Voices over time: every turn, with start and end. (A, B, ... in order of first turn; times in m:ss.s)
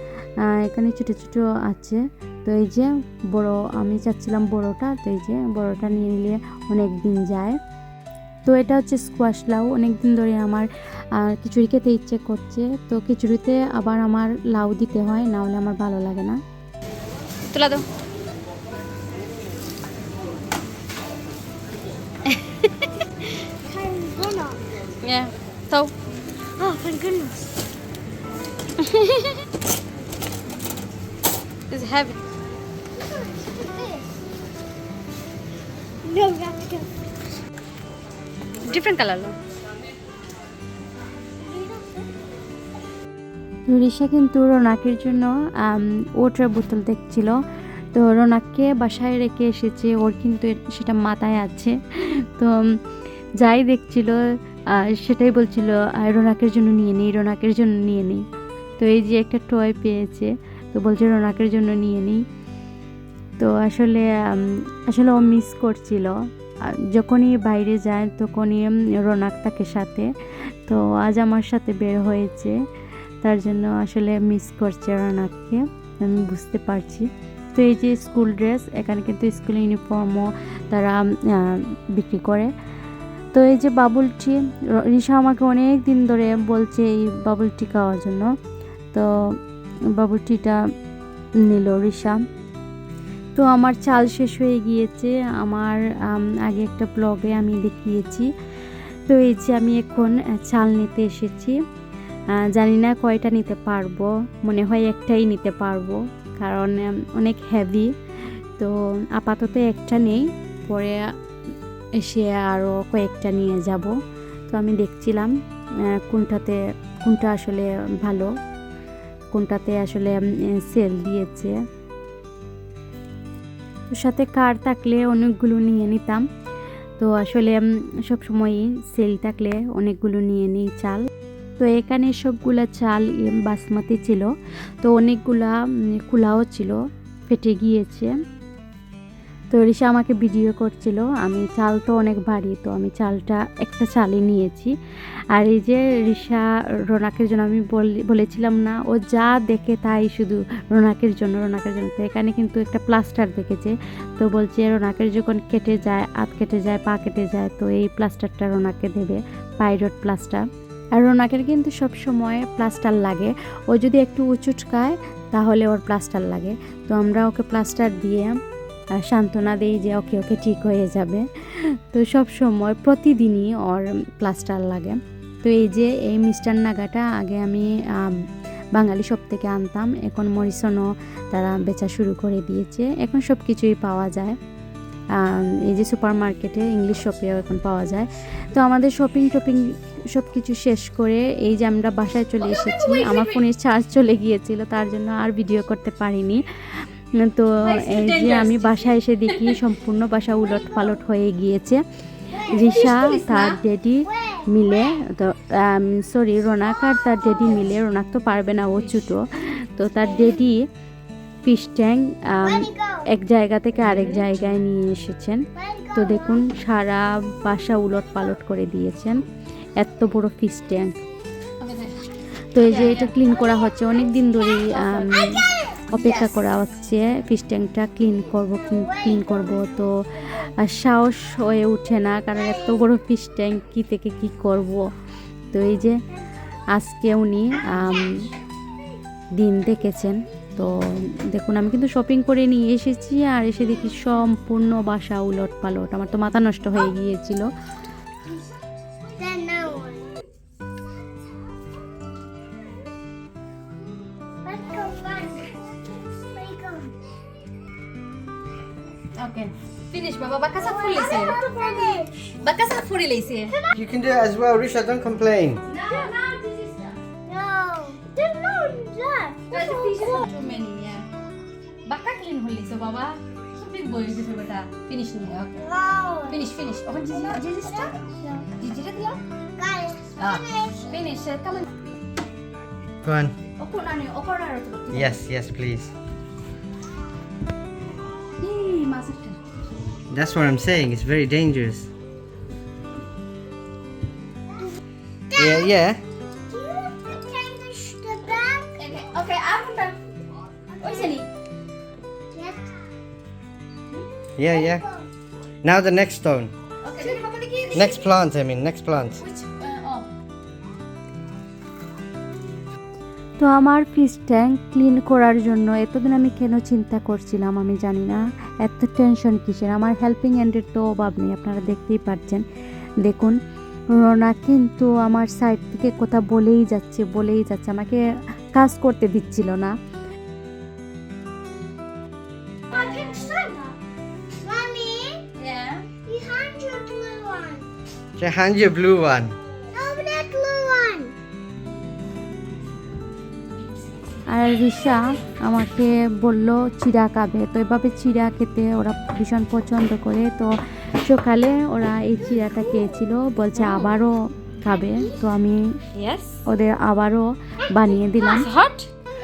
0:00.5-0:07.6 A
0:08.4-0:16.4 A
0:17.5-0:17.8 B
0:23.6-0:24.6 C
0:25.0-0:25.9 B
0:26.6-0:27.5 C
0:28.8-0:29.3 B
0:31.7-0:32.2 B
0:32.9-0:34.1 C
0:36.0-0:37.0 C
0:38.6-0:39.4 B
0:41.4-0:42.1 C
0:43.7-0:47.3 A
0:47.9-0:52.6 A
0:53.4-0:54.2 A
0:54.7-0:58.2 A
0:58.8-1:02.2 A
1:03.4-1:06.1 A
1:06.7-1:10.1 A
1:10.6-1:12.6 A
1:13.2-1:22.5 A
1:23.3-1:28.3 A
1:29.9-1:30.6 A
1:31.4-1:32.2 A
1:33.3-1:38.3 A
1:39.1-1:41.6 A
1:42.4-1:47.9 A
1:48.6-1:51.0 A
1:52.0-1:53.9 A
1:54.5-1:55.3 A
1:55.9-1:58.3 A
1:59.3-2:01.5 A
2:03.9-2:06.2 A
2:07.0-2:14.3 A
2:14.8-2:18.1 A
2:19.5-2:24.8 A
2:25.3-2:40.4 A
2:41.0-2:48.3 A
2:49.0-2:58.1 A
2:58.8-3:04.4 A
3:05.2-3:21.8 A
3:12.4-3:13.3 B
3:17.6-3:19.5 B
3:22.3-3:30.6 A
3:22.6-3:23.6 B
3:24.1-3:24.4 C
3:31.4-3:39.2 A
3:32.4-3:33.1 C
3:35.6-3:36.1 C
3:39.8-3:40.9 A
3:41.6-3:42.0 B
3:42.5-3:54.8 A
3:42.6-3:43.1 B
3:44.8-3:45.2 B
3:55.5-3:56.0 A
3:56.7-3:58.1 A
3:59.4-4:07.5 A
4:09.1-4:10.1 C
4:14.4-4:17.1 C
4:19.1-4:23.6 B
4:20.6-4:22.2 C
4:23.7-4:25.6 D
4:25.7-4:27.0 B
4:27.2-4:30.3 C
4:29.5-4:31.1 B
4:31.8-4:35.6 B
4:35.6-4:36.4 C
4:36.3-4:38.0 B
4:37.1-4:38.5 C
4:38.6-4:39.2 B
4:39.6-4:40.8 C
4:40.2-4:41.6 B
4:43.0-4:43.3 D
4:43.6-4:45.2 B
4:44.9-4:45.9 D
4:48.4-4:49.4 B
4:50.1-4:51.9 D
4:55.3-4:55.7 C
4:55.3-4:56.0 D
4:56.3-4:58.7 C
4:58.8-5:00.0 B
5:00.8-5:01.3 B
5:02.3-5:02.9 C
5:04.4-5:04.8 D
5:04.5-5:05.1 C
5:05.6-5:06.5 D
5:06.8-5:07.9 B
5:07.7-5:09.2 D
5:09.2-5:10.1 B
5:13.4-5:22.4 A
5:23.0-5:23.4 A
5:23.9-5:28.0 A
5:28.5-5:29.7 A
5:32.7-5:33.7 C
5:32.8-5:33.1 B
5:34.3-5:35.2 C
5:35.4-5:35.8 B
5:36.0-5:37.7 C
5:38.2-5:39.3 D
5:39.7-5:41.1 C
5:44.3-5:50.5 A
5:51.0-5:55.6 A
5:53.6-5:53.8 B
5:55.9-5:56.4 B
5:56.5-5:58.5 A
5:58.2-5:58.9 B